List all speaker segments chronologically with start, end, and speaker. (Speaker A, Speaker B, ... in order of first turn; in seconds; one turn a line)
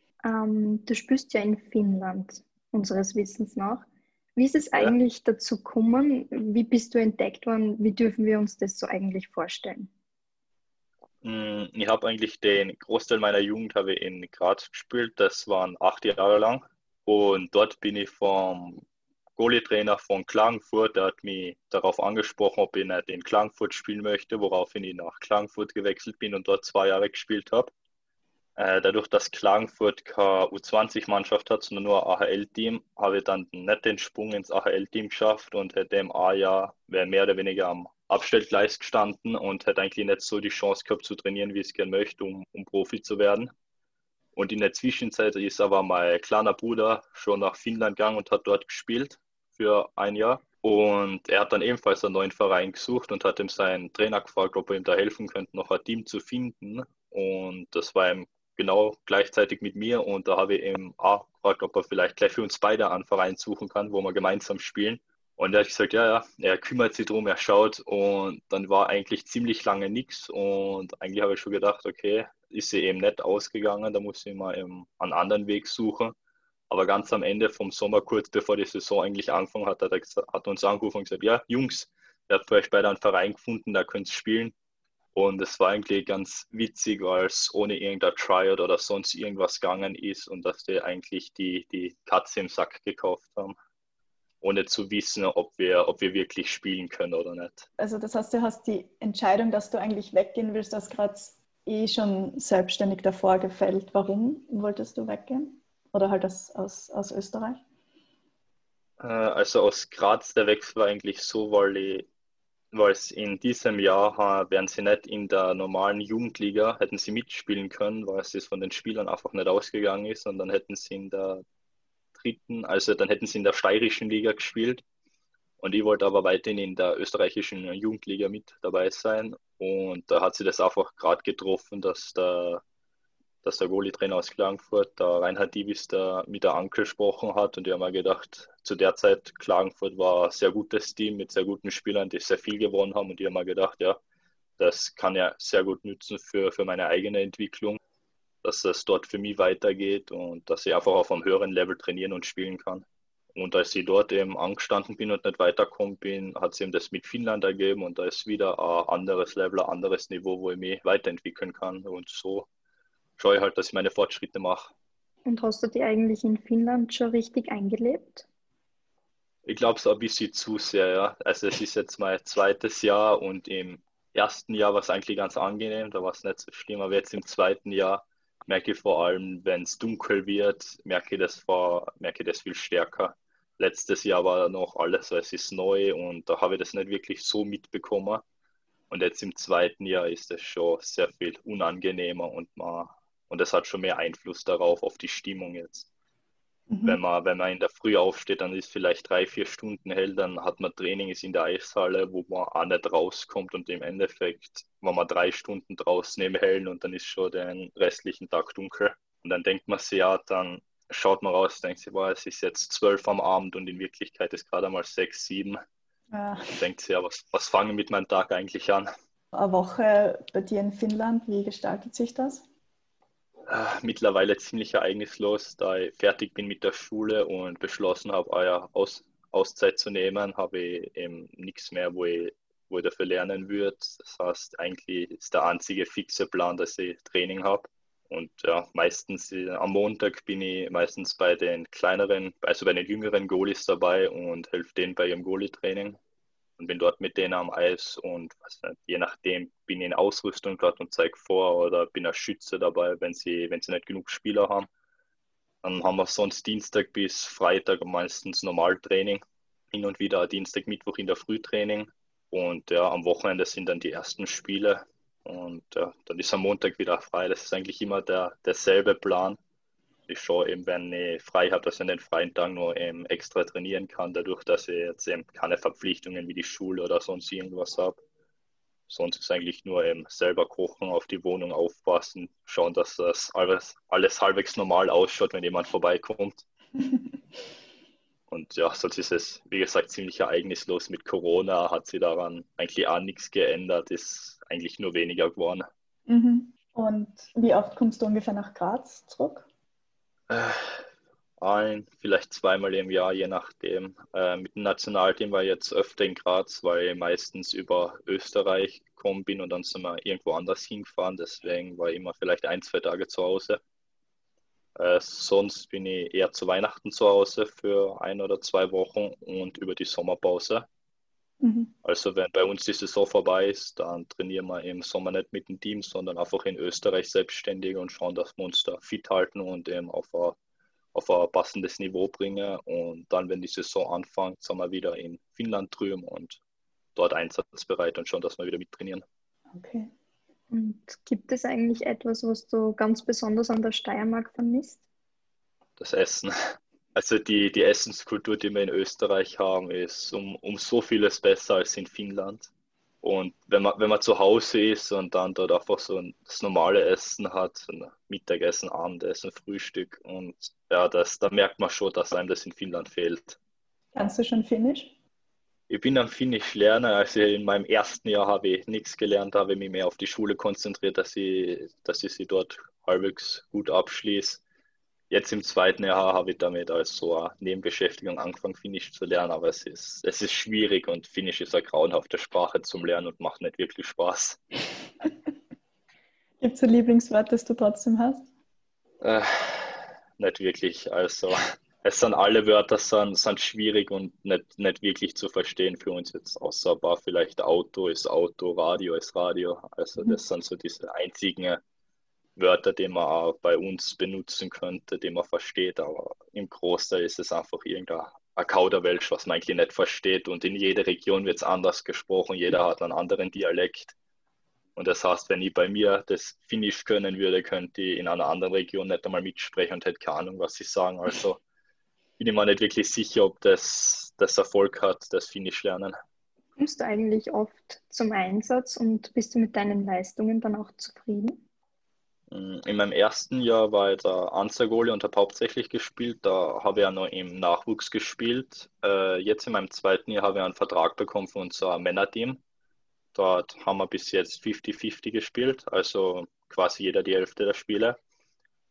Speaker A: 0.2-9.9
Speaker B: 11.2-18.8
Speaker B: 19.4-27.7
Speaker B: 28.6-43.5
Speaker B: 44.4-76.2
Speaker B: 76.7-84.5
Speaker B: 85.2-93.5
Speaker B: 94.4-97.7
Speaker C: 97.8-107.6
Speaker B: 109.0-112.1
Speaker B: 112.7-121.4
Speaker B: 122.2-124.8
Speaker B: 125.6-132.6
Speaker B: 133.4-144.0
Speaker B: 144.6-147.8
Speaker B: 148.4-162.5
Speaker B: 163.2-164.7
Speaker A: 165.3-168.3
Speaker B: 169.5-188.2
Speaker B: 188.9-195.9
Speaker C: 196.7-197.0
Speaker B: 196.8-215.6
Speaker C: 216.1-216.5
Speaker B: 216.5-218.9
Speaker C: 219.3-222.4
Speaker B: 223.5-246.0
Speaker B: 246.6-254.7
Speaker B: 255.6-269.4
Speaker B: 270.1-278.0
Speaker B: 278.9-286.4
Speaker B: 288.3-295.6
Speaker C: 296.1-299.5
Speaker B: 300.3-300.8
Speaker B: 301.4-313.6
Speaker B: 314.8-320.7
Speaker C: 321.4-321.7
Speaker B: 321.9-330.4
Speaker B: 330.9-336.4
Speaker B: 337.0-339.0
Speaker C: 339.5-339.9
Speaker A: 340.5-344.8
Speaker B: 345.8-346.3
Speaker B: 346.9-352.5
Speaker B: 353.0-363.4
Speaker C: 363.9-364.9
Speaker B: 365.7-374.4
Speaker B: 375.1-384.4
Speaker C: 386.4-388.3
Speaker B: 389.0-401.6
Speaker B: 402.4-413.9
Speaker B: 414.8-421.4
Speaker B: 422.2-425.9
Speaker A: 426.6-431.4
Speaker B: 432.3-442.4
Speaker B: 443.1-448.0